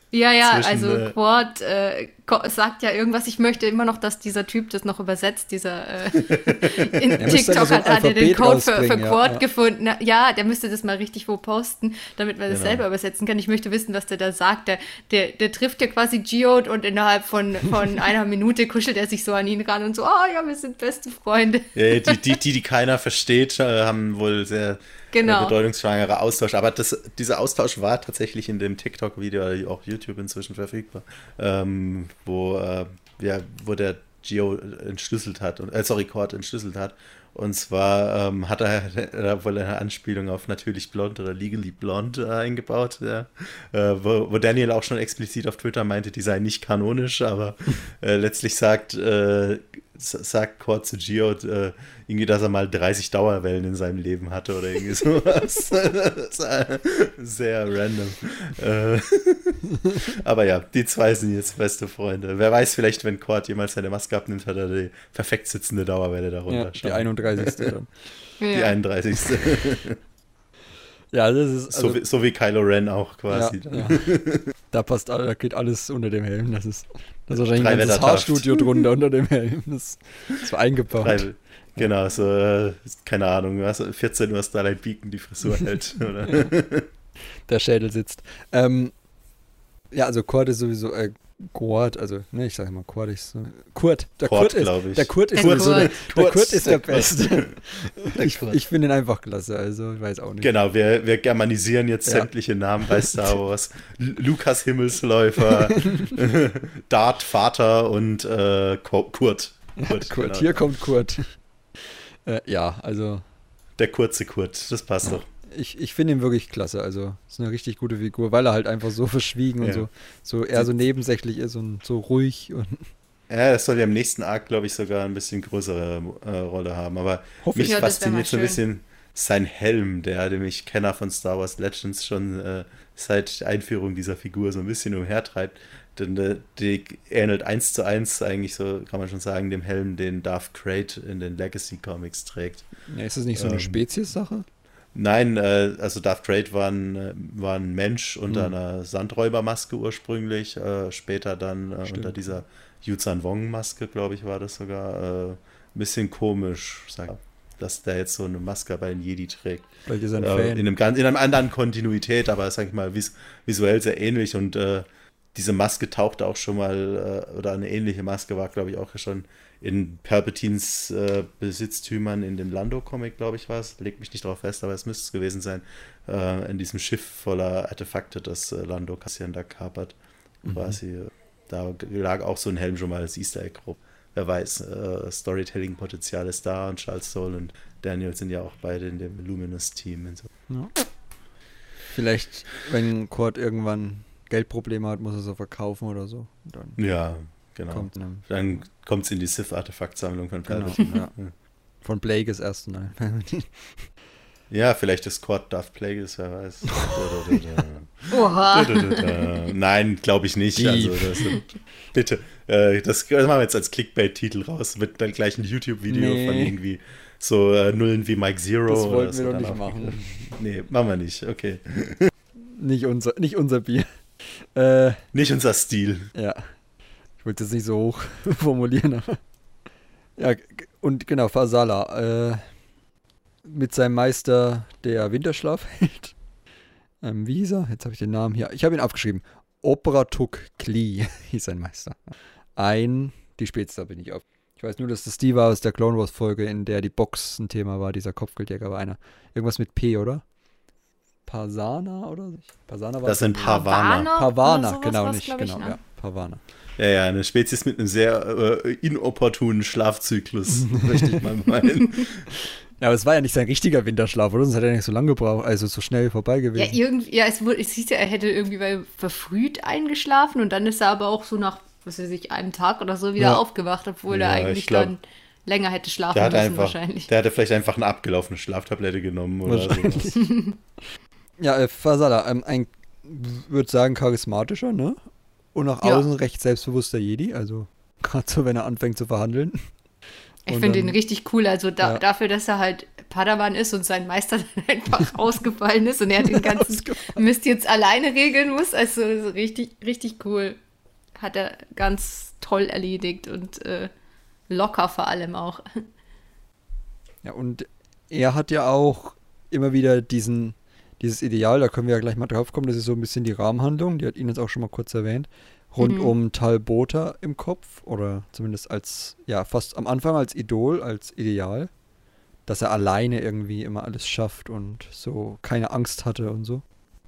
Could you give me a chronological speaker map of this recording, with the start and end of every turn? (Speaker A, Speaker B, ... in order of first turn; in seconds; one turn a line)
Speaker A: 0.1-22.4
Speaker B: 0.4-1.1
Speaker B: 6.3-7.3
Speaker C: 7.2-9.4
Speaker B: 12.5-12.8
Speaker B: 21.7-67.7
Speaker A: 25.1-25.5
Speaker C: 66.5-67.9
Speaker A: 68.4-68.8
Speaker B: 68.5-70.0
Speaker C: 71.1-72.0
Speaker B: 71.7-74.5
Speaker C: 73.3-81.8
Speaker B: 77.3-78.6
Speaker B: 81.0-86.9
Speaker C: 87.5-88.9
Speaker C: 89.9-100.5
Speaker B: 94.2-98.6
Speaker A: 95.3-95.9
Speaker B: 100.4-110.6
Speaker C: 102.0-102.3
Speaker C: 102.9-103.2
Speaker C: 105.5-106.2
Speaker C: 109.8-111.3
Speaker C: 112.2-113.2
Speaker B: 113.8-115.2
Speaker C: 115.0-122.9
Speaker B: 119.6-119.8
Speaker B: 123.3-142.7
Speaker C: 127.4-127.8
Speaker A: 127.6-128.6
Speaker C: 142.9-144.4
Speaker B: 143.3-143.8
Speaker B: 144.9-190.3
Speaker C: 151.8-152.2
Speaker C: 159.8-160.6
Speaker C: 180.4-180.8
Speaker C: 191.9-196.8
Speaker B: 196.8-201.3
Speaker C: 197.7-198.3
Speaker C: 200.5-201.1
Speaker C: 201.8-203.9
Speaker B: 204.5-222.1
Speaker C: 206.8-207.3
Speaker A: 208.1-209.4
Speaker C: 210.5-211.3
Speaker C: 215.9-216.6
Speaker C: 218.7-220.3
Speaker C: 222.4-225.0
Speaker B: 225.1-226.1
Speaker C: 226.1-226.5
Speaker C: 227.2-229.2
Speaker C: 230.2-232.5
Speaker C: 233.4-236.1
Speaker C: 237.0-250.2
Speaker C: 251.2-256.4
Speaker B: 253.0-254.1
Speaker A: 253.4-255.8
Speaker B: 256.8-262.3
Speaker C: 260.6-261.2
Speaker C: 262.3-266.8
Speaker A: 266.6-277.1
Speaker B: 274.1-274.9
Speaker B: 276.1-280.1
Speaker C: 279.4-280.3
Speaker A: 280.2-280.5
Speaker C: 281.4-285.0
Speaker C: 285.5-289.7
Speaker A: 290.4-300.6
Speaker C: 290.5-291.0
Speaker C: 296.2-297.2
Speaker A: 301.2-303.9
Speaker A: 304.5-305.8
Speaker C: 307.2-321.7
Speaker A: 315.8-316.1
Speaker C: 322.5-326.6